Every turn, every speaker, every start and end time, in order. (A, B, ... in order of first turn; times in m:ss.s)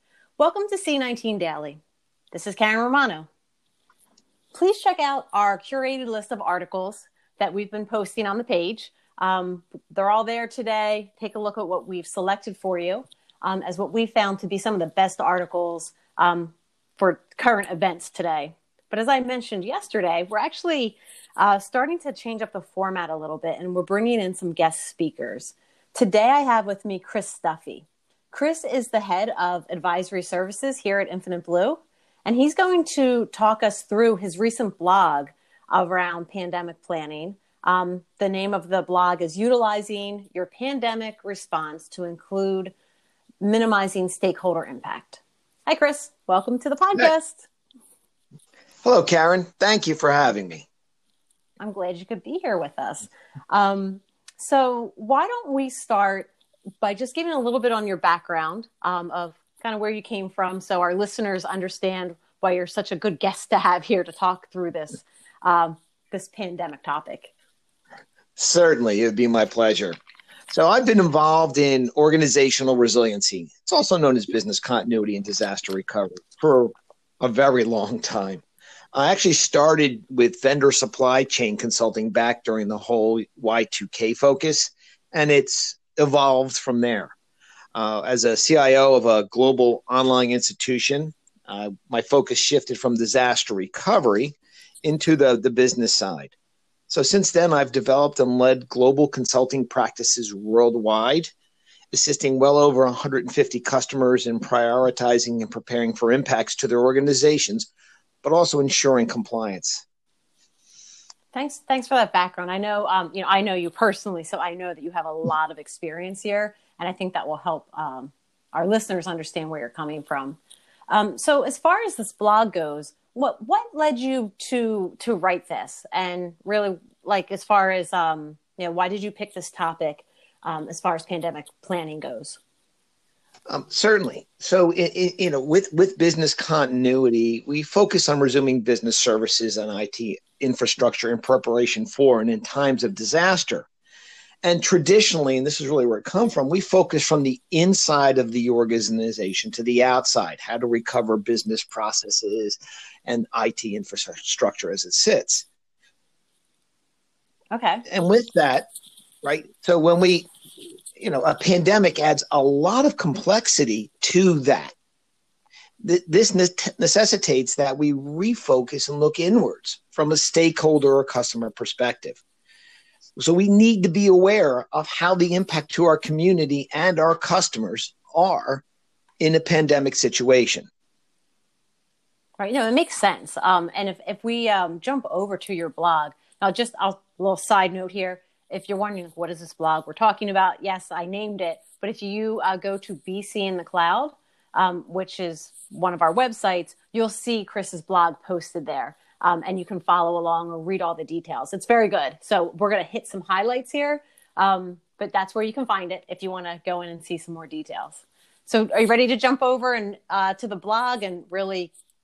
0:00.4-0:01.8 A
0:02.3-0:03.3 A
0:04.5-0:42.7 A
0:43.4-0:47.5 A
0:48.8-0:50.7 B
0:51.6-0:56.3 A
0:56.8-1:07.3 A
1:08.4-1:10.0 B
1:10.5-1:18.4 B
1:18.9-1:27.2 B
1:27.8-1:36.4 B
1:36.9-1:41.3 B
1:41.9-1:47.7 B
1:48.2-1:49.8 B
1:51.3-2:00.4 A
2:00.9-2:12.4 A
2:13.5-2:23.7 B
2:24.4-2:35.5 B
2:37.5-2:37.8 A
2:37.9-2:38.7 B
2:39.2-2:40.3 B
2:41.0-2:44.7 B
2:45.8-2:52.2 B
2:53.2-2:58.6 B
2:59.2-3:00.7 B
3:02.4-3:31.7 A